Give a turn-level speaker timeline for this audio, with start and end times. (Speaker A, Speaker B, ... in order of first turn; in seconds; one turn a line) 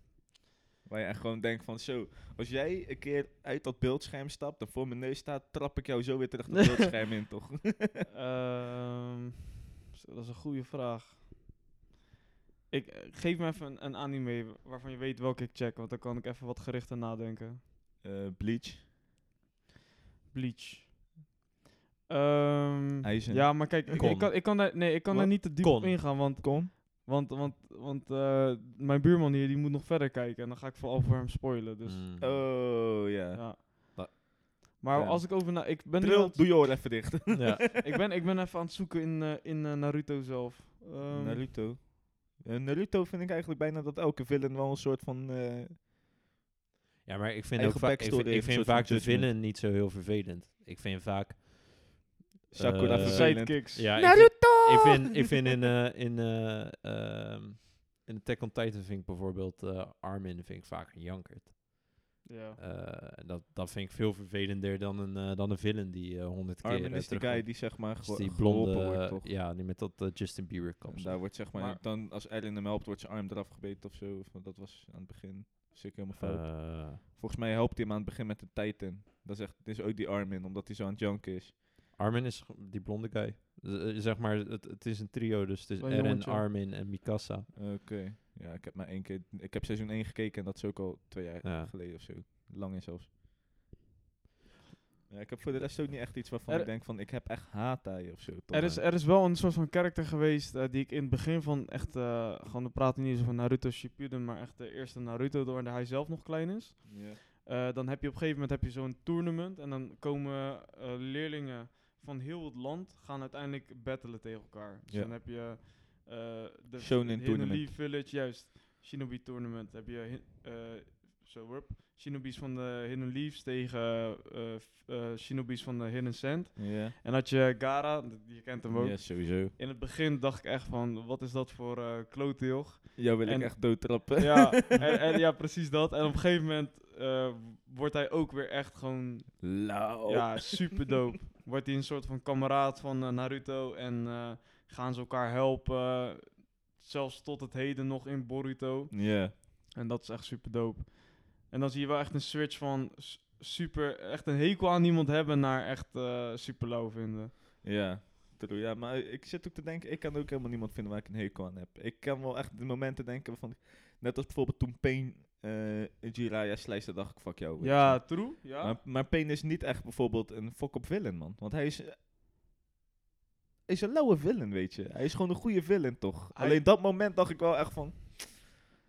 Speaker A: 0.9-8.0
Speaker B: 8.1-11.3
Speaker B: 12.7-17.6
Speaker A: 18.0-18.8
Speaker B: 20.3-21.0
Speaker B: 22.1-32.0
Speaker A: 23.0-24.1
Speaker C: 23.9-26.0
Speaker A: 25.1-26.7
Speaker C: 31.8-32.4
Speaker A: 32.2-33.4
Speaker B: 33.4-33.6
Speaker B: 34.8-36.9
Speaker A: 34.9-37.7
Speaker C: 37.3-37.7
Speaker B: 37.8-41.5
Speaker A: 41.1-45.8
Speaker C: 47.0-62.0
Speaker A: 47.6-49.3
Speaker A: 52.5-54.9
Speaker B: 53.0-53.9
Speaker B: 62.2-62.6
Speaker C: 62.6-71.3
Speaker A: 66.6-69.3
Speaker A: 70.9-81.6
Speaker B: 71.5-71.8
Speaker C: 76.2-77.0
Speaker C: 82.0-87.5
Speaker B: 85.8-86.5
Speaker A: 87.5-93.1
Speaker C: 91.4-91.7
Speaker A: 95.1-98.8
Speaker B: 98.5-157.3
Speaker A: 106.9-107.2
Speaker A: 114.9-115.2
Speaker A: 116.8-117.7
Speaker A: 126.6-127.0
Speaker A: 128.7-129.5
Speaker A: 133.0-134.9
Speaker A: 139.4-140.6
Speaker A: 148.9-149.3
Speaker A: 157.6-172.0
Speaker B: 167.6-168.8
Speaker A: 173.7-178.2
Speaker B: 176.3-176.6